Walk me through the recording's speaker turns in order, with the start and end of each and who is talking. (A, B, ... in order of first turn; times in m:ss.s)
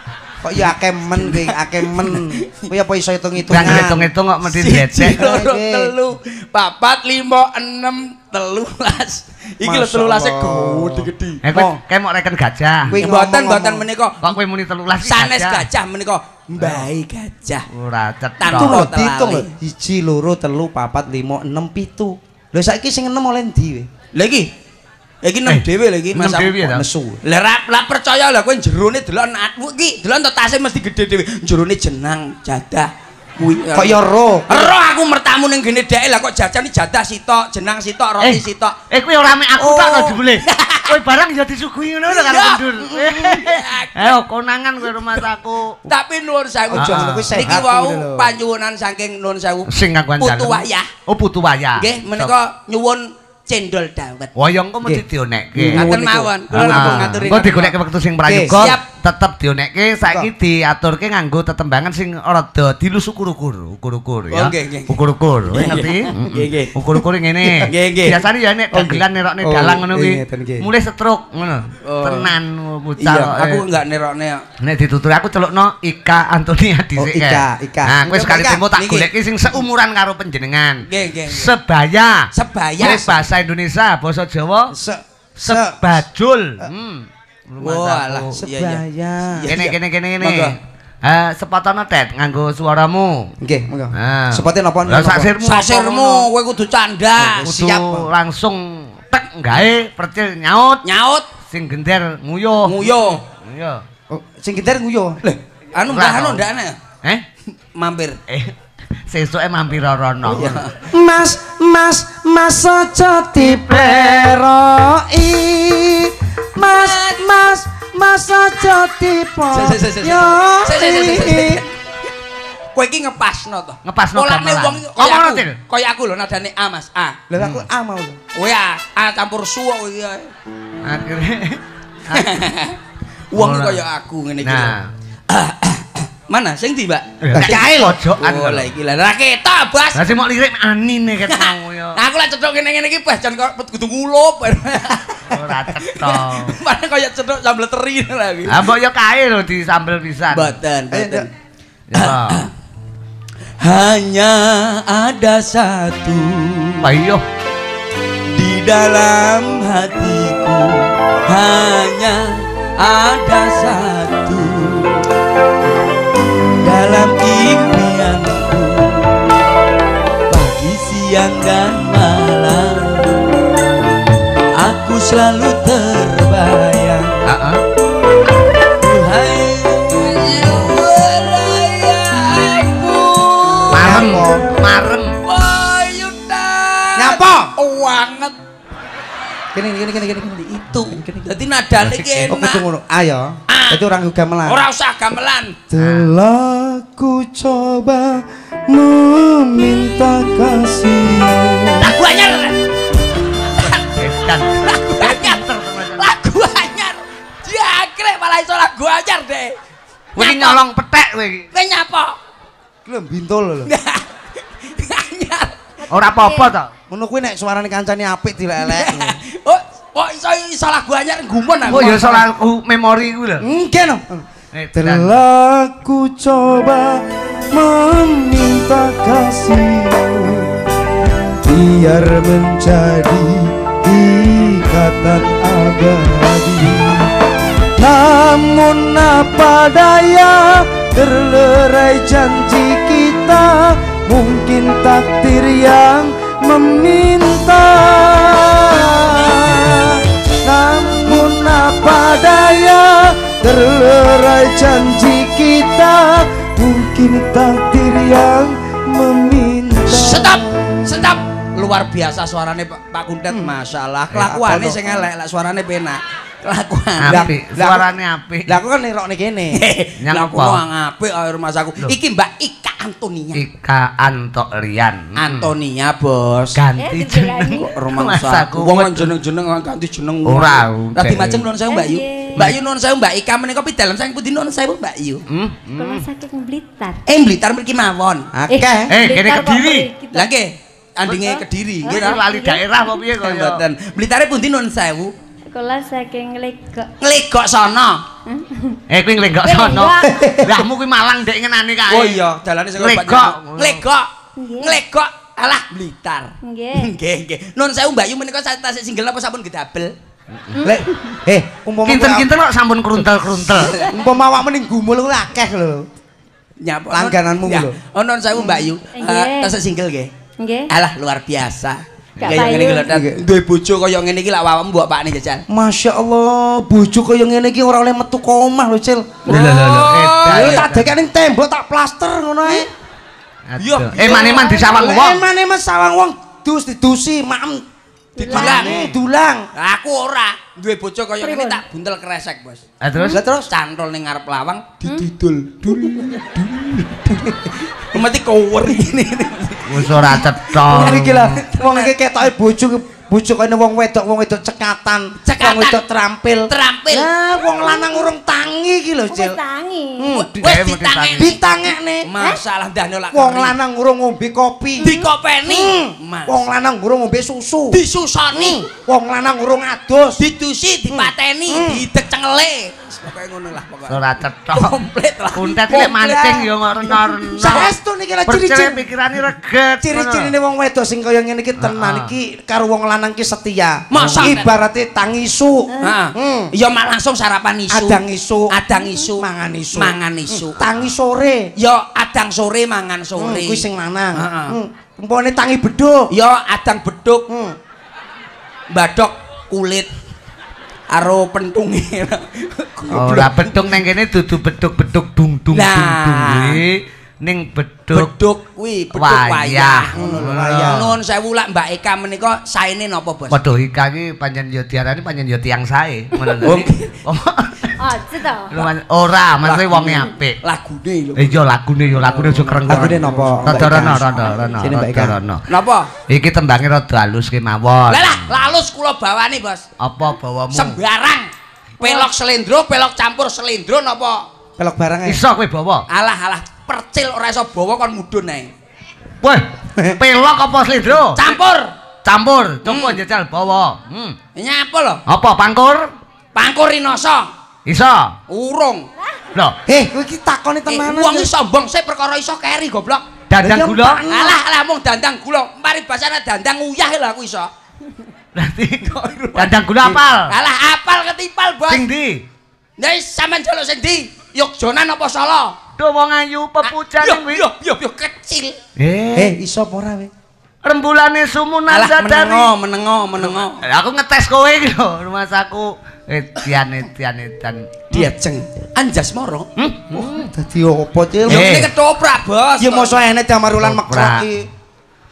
0:00.4-0:04.1 A
0:01.0-0:02.6 B
0:03.5-0:03.8 B
0:03.5-0:05.2 C
0:04.4-0:11.4 B
0:05.0-0:05.9 A
0:09.6-0:11.8 A
0:11.4-0:13.0 C
0:12.8-0:13.8 A
0:13.0-0:14.3 B
0:14.2-0:15.7 C
0:15.0-0:17.7 B
0:16.6-0:16.9 C
0:17.7-0:18.8 C
0:18.4-0:19.5 B
0:18.5-0:23.9 A
0:24.1-0:24.5 B
0:25.2-0:26.6 B
0:25.5-0:26.8 C
0:26.6-0:27.2 A
0:27.2-0:38.8 B
0:33.7-0:34.7 A
0:38.2-0:45.8 C
0:39.6-0:41.0 B
0:42.1-0:44.2 B
0:42.8-0:43.3 A
0:45.9-0:50.9 B
0:46.7-0:48.3 A
0:46.8-0:47.5 C
0:49.7-0:52.3 C
0:51.8-0:54.3 B
0:54.4-1:13.6 C
0:54.8-0:57.2 A
0:55.7-0:57.8 B
0:58.2-0:58.7 A
0:58.5-0:58.8 B
1:00.0-1:00.3 A
1:04.3-1:05.0 B
1:05.5-1:06.8 B
1:07.4-1:07.7 A
1:07.6-1:08.2 B
1:08.7-1:10.7 A
1:11.8-1:12.3 B
1:13.0-1:14.4 B
1:14.6-1:24.7 C
1:17.0-1:18.7 A
1:18.7-1:19.1 B
1:20.9-1:21.5 B
1:22.3-1:23.1 B
1:22.8-1:23.2 A
1:24.7-1:25.9 A
1:25.4-1:28.4 C
1:27.6-1:30.6 B
1:28.4-1:29.5 A
1:29.5-1:33.3 C
1:33.4-1:35.3 A
1:33.9-1:36.3 C
1:35.4-1:37.5 B
1:37.2-1:38.1 A
1:37.3-1:40.8 C
1:40.8-1:41.2 B
1:41.4-1:43.8 C
1:42.6-1:43.2 B
1:44.1-1:45.2 A
1:45.2-1:46.8 B
1:45.8-1:46.4 C
1:47.8-1:48.2 B
1:48.3-1:48.5 C
1:49.1-1:50.6 C
1:50.2-1:50.7 B
1:50.9-2:01.6 A
1:53.4-1:54.4 C
1:56.7-1:57.1 B
1:59.5-2:01.7 B
2:02.7-2:07.2 B
2:03.8-2:05.6 C
2:07.3-2:08.2 A
2:07.4-2:07.6 C
2:08.3-2:10.3 B
2:10.8-2:12.3 C
2:12.1-2:12.8 B
2:13.3-2:14.7 B
2:13.3-2:13.8 C
2:14.4-2:14.9 C
2:15.3-2:17.6 B
2:17.2-2:18.7 C
2:17.3-2:18.0 A
2:18.2-2:20.1 B
2:19.9-2:22.0 C
2:21.3-2:28.7 B
2:25.3-2:26.6 C
2:28.5-2:30.6 C
2:30.3-2:31.3 B
2:30.9-2:31.3 A
2:31.9-2:32.4 C
2:32.0-2:32.5 B
2:33.6-2:36.8 B
2:36.8-2:37.2 C
2:38.4-2:45.0 B
2:46.6-2:49.1 B
2:50.3-2:53.2 B
2:54.6-2:57.2 B
2:57.2-2:57.6 C
2:58.8-3:04.2 B
3:03.7-3:05.2 C
3:03.7-3:04.5 A
3:05.2-3:08.3 B
3:07.0-3:07.5 A
3:09.5-3:11.2 A
3:10.9-3:12.6 B
3:11.8-3:12.3 C
3:12.3-3:14.6 A
3:13.5-3:13.8 B
3:14.4-3:15.6 B
3:15.7-3:21.9 A
3:15.8-3:16.1 C
3:21.8-3:22.6 B
3:23.5-3:25.4 B
3:23.6-3:26.1 C
3:25.9-3:29.6 B
3:30.1-3:31.5 C
3:30.2-3:30.6 B
3:31.5-3:32.2 B
3:32.8-3:33.7 A
3:33.6-3:35.6 B
3:35.8-3:36.5 D
3:35.9-3:36.7 C
3:36.9-3:39.2 A
3:38.6-3:42.2 B
3:41.7-3:43.4 C
3:43.4-3:50.5 A
3:44.5-3:45.1 C
3:51.2-3:57.1 A
3:57.8-4:20.7 A
4:19.9-4:27.3 B
4:24.1-4:25.0 A
4:27.0-4:28.5 C
4:27.1-4:27.9 A
4:28.4-4:29.6 A
4:29.5-4:33.4 B
4:30.0-4:30.6 C
4:33.3-4:35.5 C
4:35.2-4:36.6 B
4:36.6-4:39.1 C
4:36.8-4:37.7 D
4:37.7-4:45.2 B
4:40.2-4:41.4 C
4:41.7-4:42.5 D
4:45.3-4:46.0 C
4:45.8-4:47.0 D
4:47.0-4:48.3 B
4:48.3-4:49.0 A
4:48.5-4:50.3 D
4:48.9-4:49.9 C
4:50.1-4:52.2 B
4:51.0-4:53.0 D
4:51.8-4:53.6 C
4:53.2-4:55.1 B
4:55.5-4:56.9 D
4:57.0-4:58.0 B
4:58.2-4:58.8 D
4:58.9-5:02.2 C
4:59.4-5:00.1 D
5:00.0-5:00.6 A
5:01.9-5:09.9 B
5:02.8-5:03.8 C
5:04.4-5:04.8 D
5:06.4-5:06.9 D
5:10.5-5:11.2 D
5:10.6-5:12.3 A
5:11.8-5:13.8 C
5:13.5-5:13.9 B
5:13.7-5:15.9 A
5:16.6-5:20.1 B
5:16.9-5:17.8 A
5:18.9-5:19.5 D
5:20.4-5:20.7 D
5:20.7-5:25.4 B
5:22.2-5:22.9 D
5:22.8-5:23.2 A
5:25.5-5:29.3 A
5:29.2-5:30.7 B
5:29.3-5:30.9 C
5:29.3-5:29.7 D
5:30.2-5:32.7 A
5:33.5-5:35.2 C
5:33.6-5:34.8 B
5:34.0-5:37.6 A
5:38.2-5:38.8 B
5:38.2-5:38.9 D
5:38.3-5:39.5 A
5:39.5-5:42.6 B
5:41.2-5:41.6 D
5:42.8-5:43.2 C
5:42.9-5:43.2 D
5:43.1-5:43.5 A
5:43.4-5:46.0 B
5:45.6-5:47.5 A
5:45.8-5:46.2 D
5:47.9-5:50.2 B
5:49.6-5:51.4 C
5:50.6-5:59.4 A
5:50.8-5:51.9 B
5:55.2-5:55.8 B
5:56.5-5:57.1 B
5:57.5-5:58.1 D
5:59.1-6:00.2 D
6:00.0-6:00.6 A
6:00.1-6:01.4 B
6:00.4-6:01.3 C
6:01.2-6:02.1 A
6:02.0-6:03.6 B
6:03.1-6:07.8 A
6:04.8-6:06.4 B
6:04.8-6:05.1 D
6:07.7-6:08.6 B
6:08.3-6:10.2 A
6:10.2-6:17.7 B
6:10.9-6:11.9 A
6:13.9-6:14.8 C
6:15.3-6:17.7 C
6:17.4-6:18.8 A
6:18.2-6:20.3 C
6:19.8-6:26.5 A
6:21.6-6:22.1 C
6:23.9-6:24.5 B
6:25.8-6:30.7 B
6:27.7-6:28.5 A
6:28.7-6:29.1 D
6:29.2-6:31.5 A
6:31.6-6:33.6 B
6:33.2-6:36.1 A
6:34.1-6:34.6 B
6:36.1-6:37.3 B
6:37.3-6:37.6 A
6:38.7-6:39.9 B
6:40.9-6:43.5 B
6:42.9-6:48.1 C
6:45.5-6:46.6 B
6:47.9-6:53.4 B
6:48.9-6:51.0 C
6:49.9-6:50.8 A
6:53.3-6:57.8 C
6:56.4-6:56.9 B
6:57.8-6:58.7 D
6:58.5-7:00.4 C
6:59.4-7:04.5 B
7:01.2-7:05.4 C
7:02.7-7:05.2 A
7:05.5-7:05.9 B
7:06.1-7:08.3 C
7:07.9-7:09.6 B
7:09.8-7:10.8 C
7:10.5-7:14.2 B
7:14.6-7:15.2 A
7:15.0-7:15.8 C
7:15.9-7:18.5 B
7:19.2-7:21.3 C
7:21.0-7:21.7 B
7:22.0-7:24.2 C
7:22.6-7:23.0 B
7:24.3-7:25.0 B
7:25.1-7:25.9 C
7:26.3-7:27.3 B
7:27.6-7:28.2 C
7:28.3-7:28.9 B
7:29.7-7:31.3 A
7:30.7-7:33.1 B
7:33.3-7:34.0 C
7:33.4-7:34.4 A
7:34.1-7:37.5 B
7:38.3-7:40.3 C
7:38.8-7:39.6 B
7:40.2-7:41.9 B
7:41.7-7:42.2 C
7:42.8-7:45.6 B
7:45.8-7:47.4 C
7:46.6-7:48.6 B
7:48.8-7:49.3 C
7:49.1-7:50.1 A
7:50.6-7:52.5 C
7:51.7-7:53.6 B
7:53.2-7:58.1 C
7:57.9-7:59.5 B
7:59.6-8:00.3 C
7:59.9-8:01.7 A
8:01.3-8:01.7 C
8:01.3-8:03.0 B
8:02.6-8:04.5 A
8:03.6-8:04.2 C